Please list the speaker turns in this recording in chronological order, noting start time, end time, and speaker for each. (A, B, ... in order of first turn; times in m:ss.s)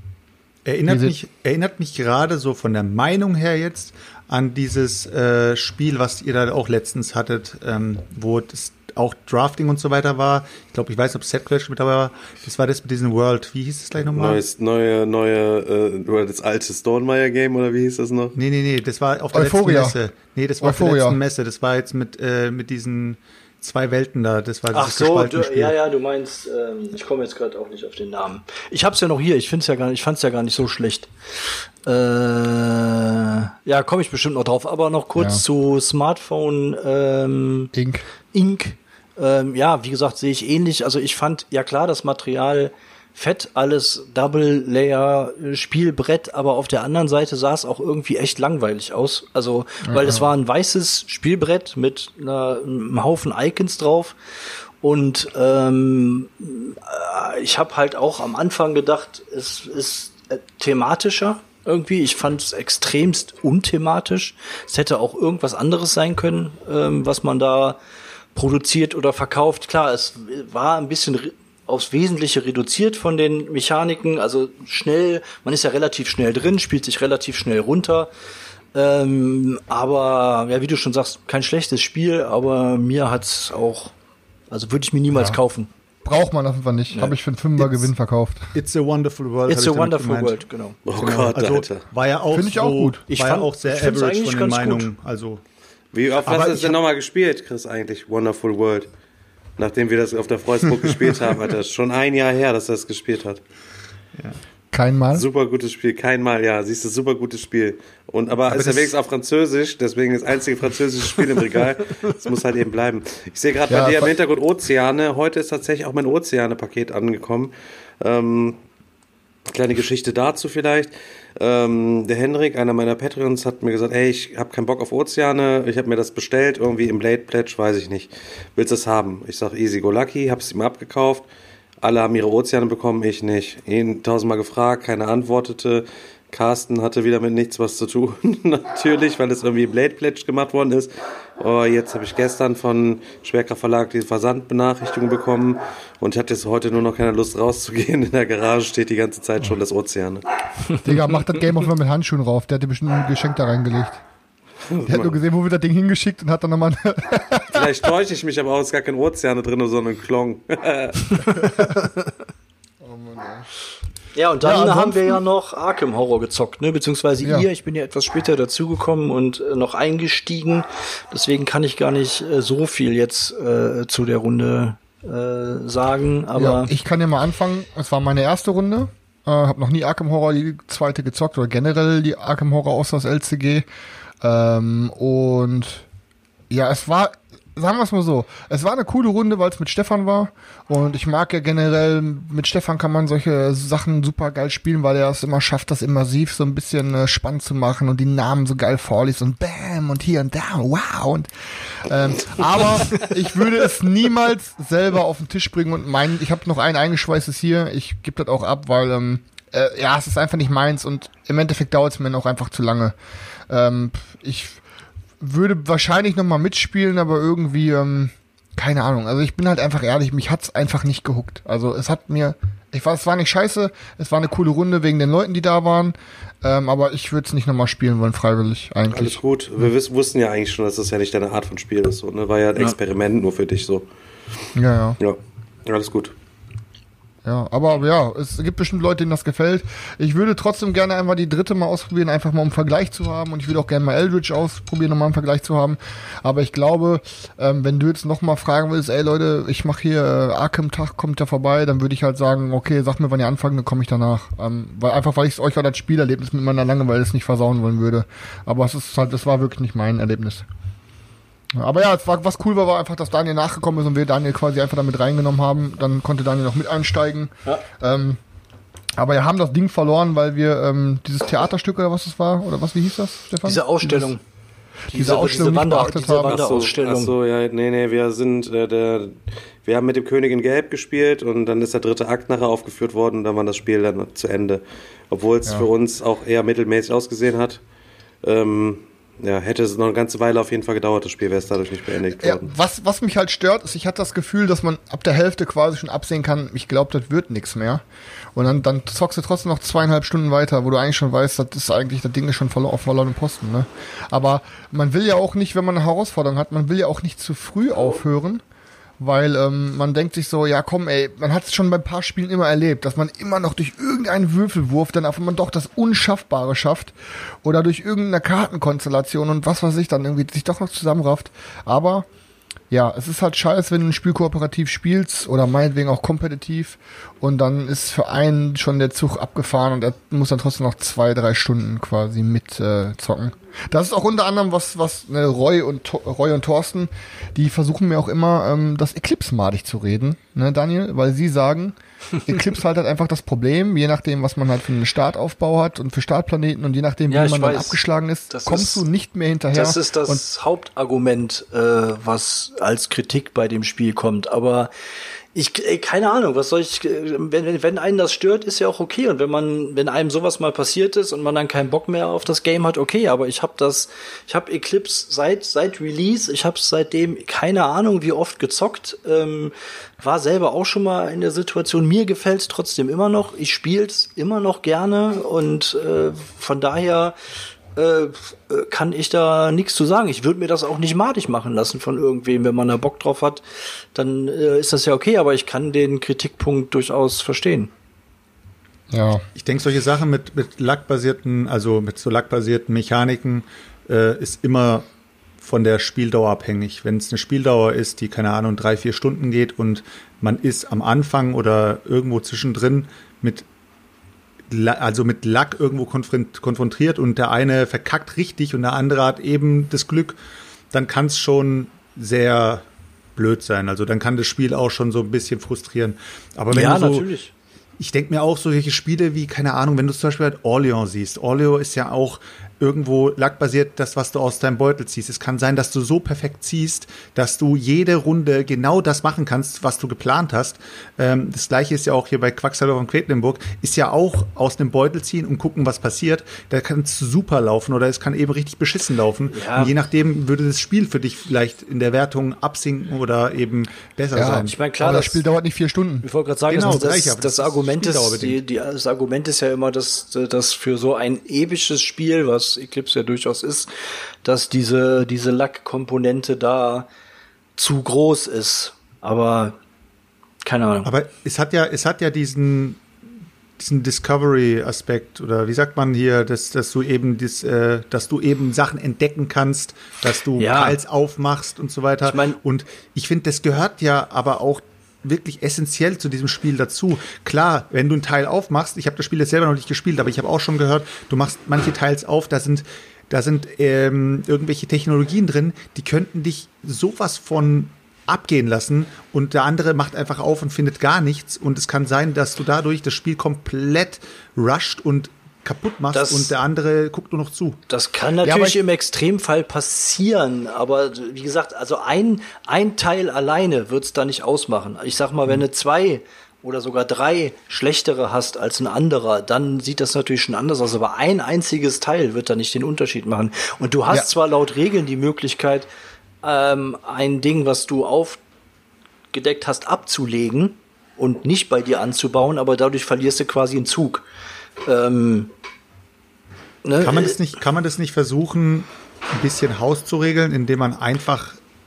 0:00.6-0:14.4 A
0:00.9-0:01.2 B
0:14.0-0:18.4 C
0:18.4-0:25.8 A
0:19.3-0:20.0 B
0:20.6-0:21.2 B
0:24.7-0:37.7 D
0:35.2-0:35.4 B
0:37.7-0:38.0 B
0:38.3-0:54.1 D
0:49.8-0:50.3 B
0:54.8-1:07.8 D
1:08.4-1:18.1 D
1:18.8-1:23.9 D
1:24.5-1:25.7 D
1:25.1-1:25.4 B
1:26.0-1:28.6 B
1:26.9-1:27.2 D
1:28.5-1:30.4 A
1:29.5-1:30.8 D
1:30.9-1:31.8 C
1:30.9-1:35.4 A
1:32.3-1:33.0 B
1:33.1-1:34.9 D
1:35.9-1:38.9 C
1:36.2-1:36.8 A
1:39.6-1:43.4 C
1:40.8-1:41.2 A
1:44.7-1:45.2 B
1:45.1-1:58.6 C
1:48.5-1:48.9 A
1:53.7-1:54.1 B
1:59.5-2:11.2 C
2:11.8-2:30.2 C
2:30.8-2:34.0 B
2:34.7-2:35.2 C
2:34.9-2:37.7 B
2:37.5-2:41.6 C
2:42.8-2:43.5 B
2:44.1-2:56.7 D
2:44.4-2:45.2 B
2:47.2-2:47.5 B
2:56.4-3:03.7 B
3:04.2-3:05.9 B
3:06.5-3:32.9 B
3:33.5-3:34.6 B
3:35.2-3:49.7 B
3:48.9-3:53.9 C
3:54.5-3:55.0 B
3:55.0-3:56.1 C
3:57.2-4:20.5 B
4:21.5-4:28.2 B
4:29.0-4:34.2 B
4:33.4-4:34.2 D
4:34.9-4:36.4 B
4:34.9-4:37.1 D
4:36.2-4:47.6 C
4:48.2-4:52.5 C
4:52.2-4:57.8 B
4:58.3-5:08.4 B
5:09.0-5:22.1 B
5:22.7-5:50.2 B
5:47.1-5:48.8 D
5:49.5-5:54.7 D
5:55.3-6:17.2 D
6:17.8-6:23.4 D
6:23.9-6:27.7 D
6:28.9-6:29.2 B
6:29.4-6:34.8 A
6:35.4-6:43.4 A
6:44.5-6:50.2 A
6:50.7-6:52.6 A
6:53.2-6:57.1 A
6:56.5-6:57.3 D
6:57.8-7:24.6 A
7:19.3-7:19.7 D
7:24.1-7:26.0 B
7:24.2-7:25.2 D
7:26.0-7:33.7 D
7:26.5-7:28.4 A
7:34.2-7:36.9 D
7:37.6-7:39.6 D
7:40.4-7:40.9 D
7:40.8-7:42.8 A
7:43.6-8:17.6 A
7:50.4-7:50.8 D
7:52.0-7:52.4 D
8:15.9-8:16.3 D
8:17.7-8:35.7 D
8:18.2-8:18.6 B
8:36.2-8:38.2 D
8:39.1-8:44.0 D
8:44.7-8:45.3 D
8:46.6-8:47.2 D
8:46.8-8:51.4 A